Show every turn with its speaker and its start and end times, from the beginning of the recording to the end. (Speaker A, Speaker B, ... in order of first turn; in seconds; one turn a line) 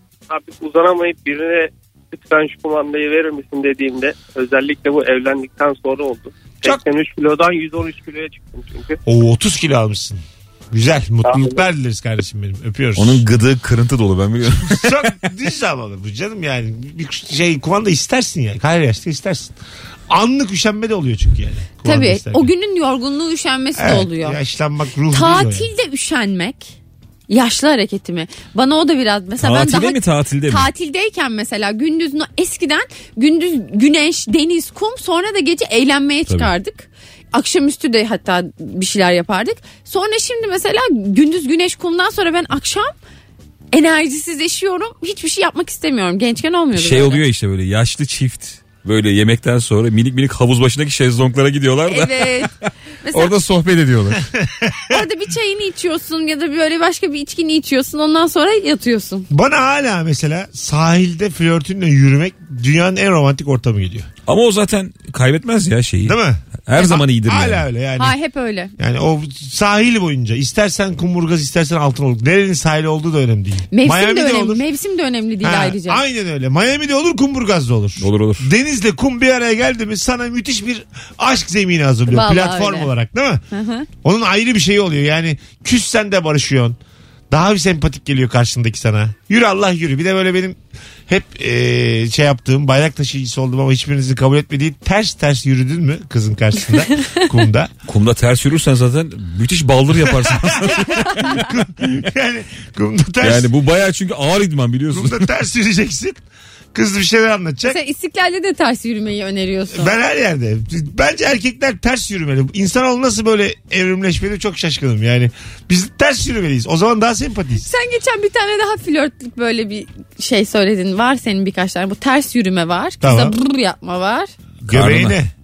Speaker A: 0.3-9.0
Speaker B: 9.1-13.2
Speaker A: 11.2-11.6
Speaker C: 13.0-15.1
Speaker B: 14.7-19.5
Speaker B: 20.1-22.5
Speaker D: 21.8-24.4
Speaker B: 23.8-25.7
Speaker D: 25.1-26.7
Speaker D: 27.3-42.9
Speaker C: 29.4-30.7
Speaker D: 43.7-47.2
Speaker C: 46.8-52.5
Speaker D: 51.9-52.5
Speaker D: 53.0-53.4
Speaker C: 53.1-54.2
Speaker B: 54.4-55.0
Speaker D: 54.9-59.3
Speaker B: 59.3-64.1
Speaker C: 64.3-67.7
Speaker B: 66.0-68.2
Speaker D: 66.8-67.0
Speaker D: 68.0-68.7
Speaker B: 68.8-74.6
Speaker D: 73.7-76.0
Speaker B: 75.4-83.5
Speaker C: 78.0-78.5
Speaker D: 82.1-82.9
Speaker D: 83.5-83.9
Speaker B: 84.0-86.8
Speaker B: 87.3-97.7
Speaker C: 97.9-101.4
Speaker B: 100.2-103.5
Speaker C: 103.2-105.3
Speaker B: 104.9-106.2
Speaker B: 106.7-107.8
Speaker D: 107.7-109.9
Speaker B: 109.7-117.7
Speaker D: 117.6-124.3
Speaker B: 123.0-123.4
Speaker B: 124.6-125.3
Speaker C: 124.7-125.2